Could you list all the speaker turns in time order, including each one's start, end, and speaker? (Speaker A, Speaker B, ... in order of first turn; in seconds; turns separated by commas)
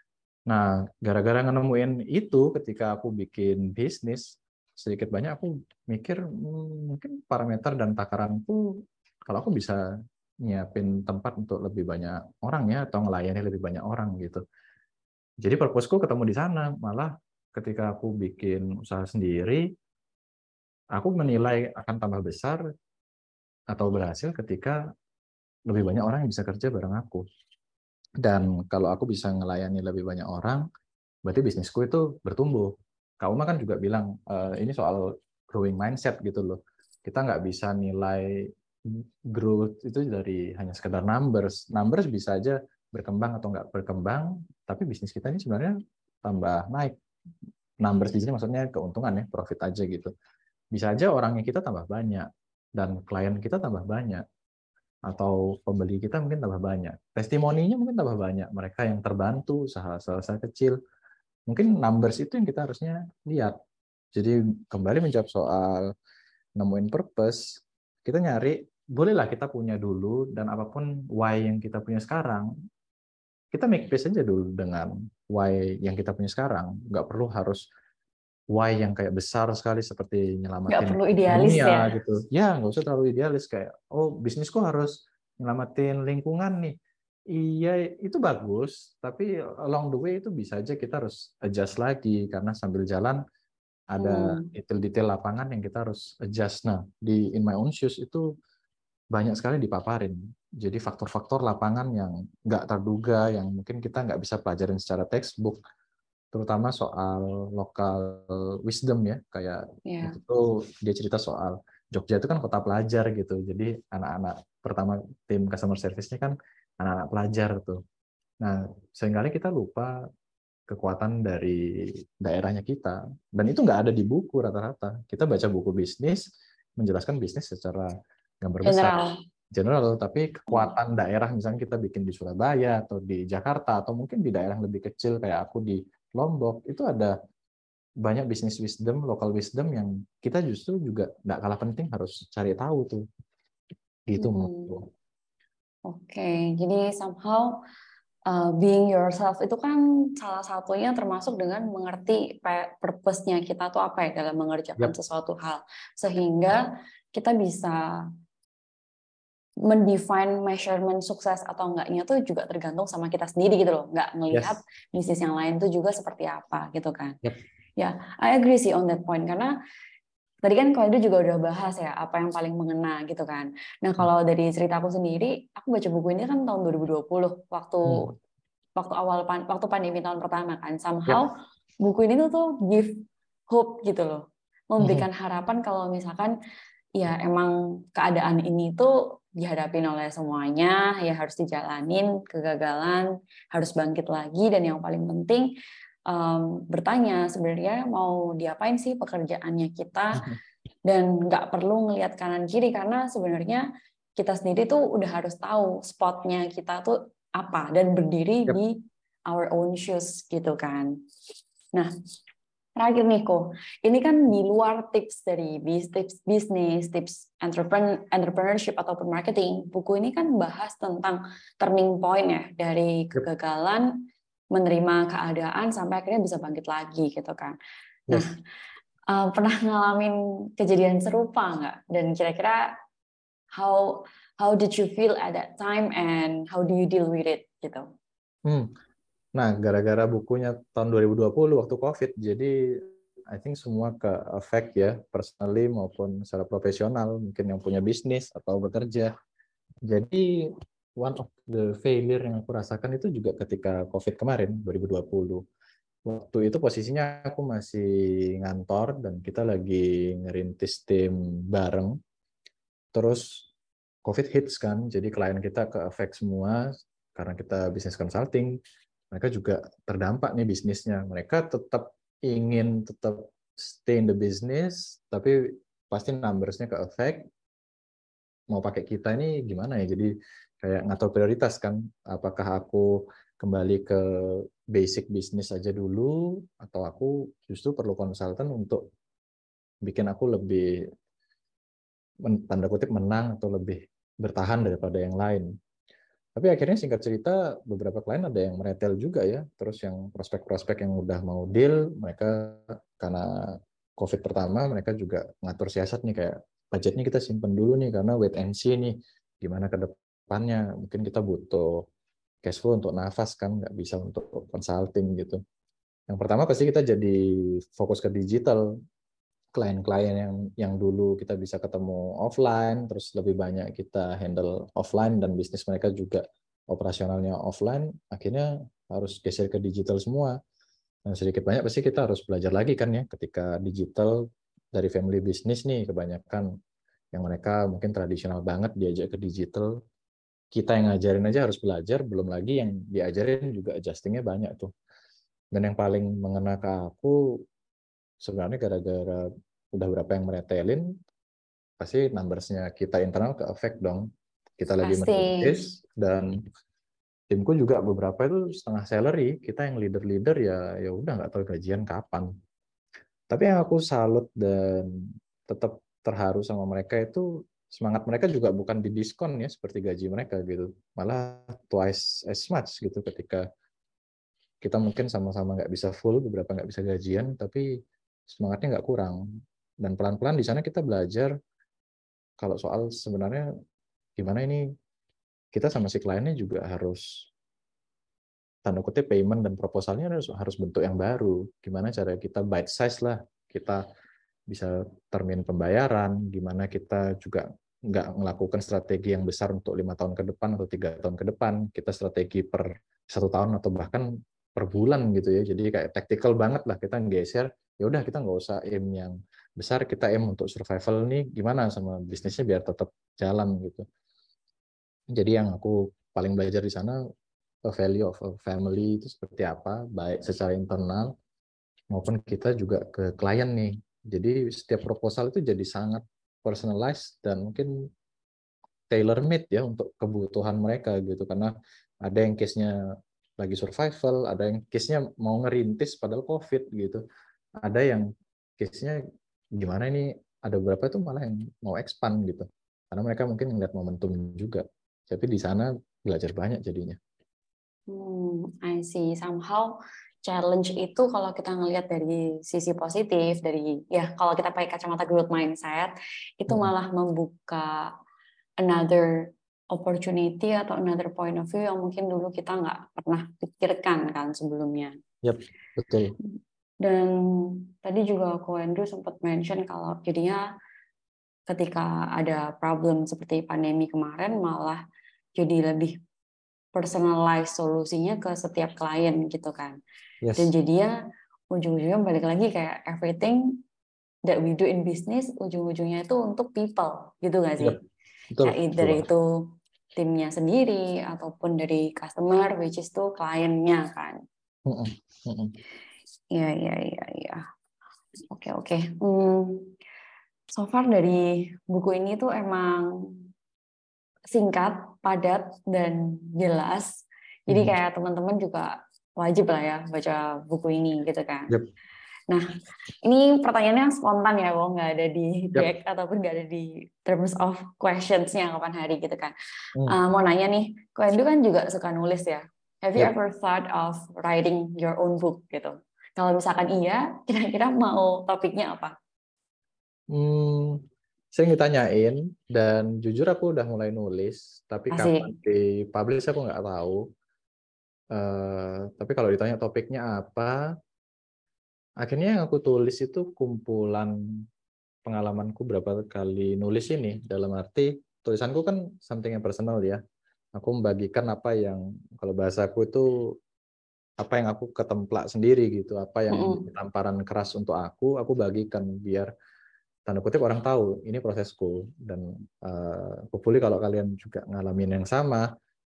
Speaker A: 0.5-8.7, Speaker A: 9.3-9.8, Speaker A: 10.4-14.4, Speaker A: 15.4-19.6, Speaker A: 20.9-22.6, Speaker A: 23.7-24.8, Speaker A: 25.7-27.2, Speaker A: 28.2-30.6, Speaker A: 31.2-38.4, Speaker A: 38.9-45.7, Speaker A: 46.2-47.0, Speaker A: 47.8-50.1, Speaker A: 50.7-54.2, Speaker A: 55.1-60.8, Speaker A: 61.5-63.6, Speaker A: 64.2-65.9, Speaker A: 66.6-72.5, Speaker A: 73.5-77.6, Speaker A: 78.5-86.8, Speaker B: 80.7-81.9, Speaker A: 87.3-93.2, Speaker A: 94.0-98.2, Speaker B: 94.0-94.5, Speaker A: 99.1-105.6, Speaker A: 106.3-117.8, Speaker B: 109.9-110.2, Speaker A: 118.4-119.9, Speaker A: 120.7-126.2, Speaker A: 126.8-127.9, Speaker A: 128.4-128.9, Speaker B: 128.7-129.2, Speaker A: 129.5-137.2, Speaker A: 138.0-143.0, Speaker A: 144.1-144.9, Speaker B: 144.2-144.7, Speaker B: 145.9-147.6, Speaker B: 148.3-158.0, Speaker B: 159.7-167.2, Speaker A: 164.3-164.6, Speaker B: 167.8-169.5, Speaker B: 170.4-178.1, Speaker A: 177.9-178.2, Speaker B: 178.8-181.3, Speaker B: 181.8-186.4, Speaker A: 184.8-185.1, Speaker B: 187.0-195.5, Speaker B: 196.1-200.2, Speaker B: 200.8-203.7, Speaker B: 204.2-211.0, Speaker B: 212.8-227.6, Speaker B: 229.1-232.7, Speaker B: 233.5-237.9, Speaker A: 239.4-249.1, Speaker A: 249.9-250.2, Speaker A: 251.0-255.4, Speaker A: 256.1-257.9, Speaker A: 258.4-261.9, Speaker A: 262.9-263.5, Speaker A: 264.1-266.6, Speaker A: 267.1-268.6, Speaker A: 269.1-275.3, Speaker A: 275.9-277.3, Speaker A: 278.5-280.1, Speaker A: 280.6-282.9, Speaker A: 283.4-284.0, Speaker A: 284.7-288.8, Speaker A: 289.8-290.7, Speaker A: 292.3-295.5, Speaker A: 296.4-303.3, Speaker A: 304.0-311.8, Speaker A: 312.4-315.4, Speaker A: 316.1-317.2, Speaker A: 317.7-318.7, Speaker A: 319.6-330.4, Speaker A: 331.1-334.2, Speaker A: 334.7-336.5, Speaker A: 337.1-339.7, Speaker A: 340.5-344.7, Speaker A: 345.5-347.2, Speaker A: 348.2-350.9, Speaker A: 351.8-354.1, Speaker A: 354.6-356.3, Speaker B: 354.8-355.6, Speaker A: 357.3-362.3, Speaker A: 363.3-364.9, Speaker A: 365.5-373.4, Speaker A: 374.6-377.7, Speaker A: 378.3-379.2, Speaker A: 379.8-381.3, Speaker A: 382.4-383.5, Speaker A: 384.2-384.6, Speaker A: 385.5-387.3, Speaker A: 388.6-393.8, Speaker A: 394.5-413.9, Speaker A: 415.1-417.0, Speaker A: 417.7-421.1, Speaker A: 421.9-427.7, Speaker A: 428.9-431.5, Speaker A: 432.0-432.7, Speaker A: 433.4-437.0, Speaker A: 437.6-438.1, Speaker A: 438.6-439.0, Speaker A: 439.6-447.0, Speaker B: 447.9-457.9, Speaker B: 458.6-465.0, Speaker A: 465.2-466.2, Speaker B: 466.8-470.4, Speaker B: 471.5-474.8, Speaker B: 475.4-476.0, Speaker B: 476.7-479.8, Speaker A: 480.2-480.5, Speaker B: 480.4-480.9, Speaker B: 481.5-483.6, Speaker B: 484.2-487.8, Speaker A: 488.3-489.1, Speaker B: 488.4-494.2, Speaker A: 494.7-495.5, Speaker B: 496.3-497.4, Speaker B: 498.3-499.8, Speaker B: 500.5-503.2, Speaker B: 504.3-506.9, Speaker B: 507.5-511.5, Speaker A: 507.5-507.8, Speaker B: 513.0-519.3, Speaker B: 519.9-528.9, Speaker A: 530.1-530.8, Speaker A: 531.3-537.0, Speaker B: 534.9-535.3, Speaker A: 538.1-540.6, Speaker A: 542.0-544.1, Speaker A: 545.1-550.0, Speaker A: 550.6-553.1, Speaker A: 554.2-559.3, Speaker B: 556.3-556.6, Speaker A: 560.1-565.5